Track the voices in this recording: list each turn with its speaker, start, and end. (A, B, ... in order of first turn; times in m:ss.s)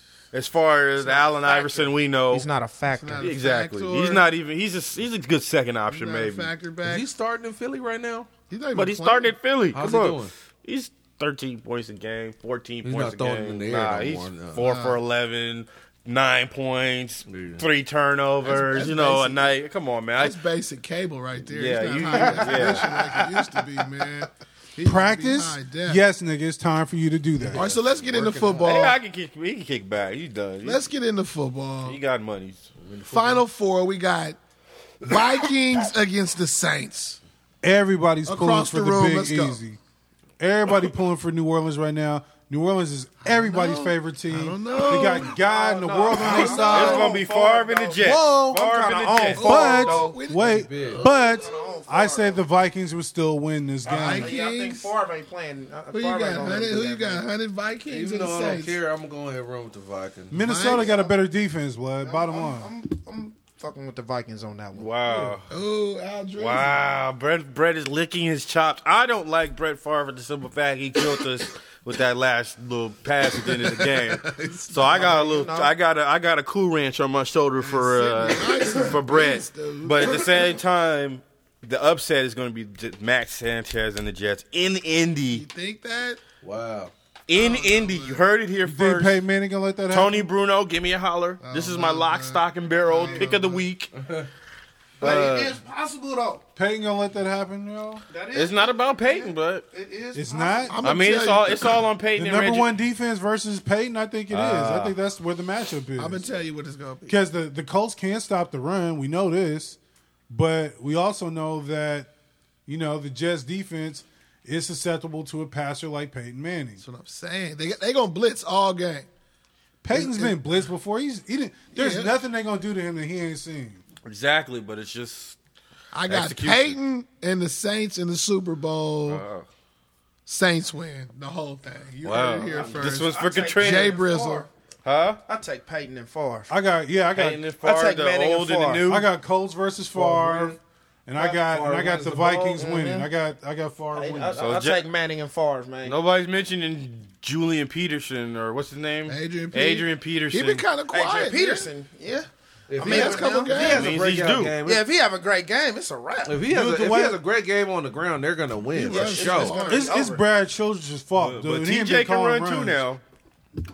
0:00.3-0:02.5 A
0:01.0-0:02.0 B
0:02.3-0:03.3 C
0:02.9-0:04.3 B
0:03.2-0:06.5 A
0:05.9-0:07.1 B
0:06.8-0:08.3 D
0:08.5-0:09.4 B
0:08.7-0:20.4 A
0:09.7-0:10.3 D
0:12.8-0:14.6 D
0:14.6-0:15.0 B
0:17.3-0:17.6 D
0:18.4-0:19.5 B
0:20.2-0:26.0 B
0:21.5-0:22.9 A
0:22.2-0:23.4 E
0:24.8-0:28.7 E
0:27.5-0:29.0 B
0:28.6-0:30.8 A
0:30.6-0:32.0 B
0:31.8-0:32.7 A
0:32.8-0:33.1 D
0:33.0-0:34.4 B
0:35.0-0:37.2 B
0:37.6-0:39.8 E
0:38.3-0:39.6 B
0:40.4-0:47.2 E
0:43.2-0:45.4 B
0:45.3-0:50.2 C
0:46.1-0:47.2 B
0:46.3-0:49.8 A
0:49.3-0:51.0 B
0:49.4-0:54.3 E
0:50.4-0:51.0 D
0:50.8-0:52.4 C
0:53.9-0:54.9 B
0:53.9-0:57.2 C
0:55.9-0:58.8 B
0:57.9-1:00.4 D
1:00.3-1:02.7 E
1:00.3-1:01.0 B
1:00.7-1:01.1 C
1:02.0-1:05.1 C
1:04.8-1:05.5 A
1:05.5-1:06.8 B
1:06.4-1:25.4 A
1:13.4-1:15.1 B
1:14.8-1:15.7 C
1:17.6-1:20.6 B
1:25.3-1:26.2 B
1:26.4-1:26.9 D
1:27.3-1:29.2 A
1:27.3-1:28.2 B
1:28.6-1:30.3 E
1:29.9-1:33.9 A
1:31.4-1:33.7 B
1:34.0-1:34.3 D
1:35.0-1:36.4 C
1:35.0-1:35.6 A
1:36.6-1:38.0 E
1:38.1-1:40.6 C
1:38.3-1:39.7 A
1:40.1-1:40.8 E
1:40.6-1:41.9 B
1:40.8-1:42.8 A
1:42.2-1:46.4 E
1:44.3-1:45.0 A
1:46.0-1:47.2 B
1:47.1-1:49.8 E
1:50.3-1:52.1 E
1:52.7-1:56.8 E
1:56.8-1:59.1 B
1:59.8-2:03.8 E
1:59.9-2:00.4 B
2:01.7-2:02.2 B
2:04.0-2:05.4 A
2:05.9-2:09.2 B
2:06.1-2:06.8 A
2:09.1-2:09.5 A
2:10.3-2:14.5 B
2:12.0-2:14.0 A
2:12.5-2:14.5 C
2:14.8-2:15.2 A
2:15.3-2:16.5 C
2:16.5-2:17.5 E
2:17.1-2:19.1 A
2:17.6-2:18.9 C
2:18.8-2:24.5 E
2:20.0-2:20.5 C
2:21.2-2:23.1 C
2:23.9-2:26.0 C
2:24.4-2:24.8 A
2:25.8-2:30.7 A
2:29.1-2:31.7 B
2:30.9-2:36.5 C
2:32.7-2:34.8 D
2:32.8-2:34.0 B
2:33.5-2:34.6 A
2:36.3-2:39.6 D
2:36.5-2:37.2 E
2:38.7-2:40.0 B
2:38.8-2:40.2 C
2:39.7-2:42.8 E
2:41.2-2:43.0 A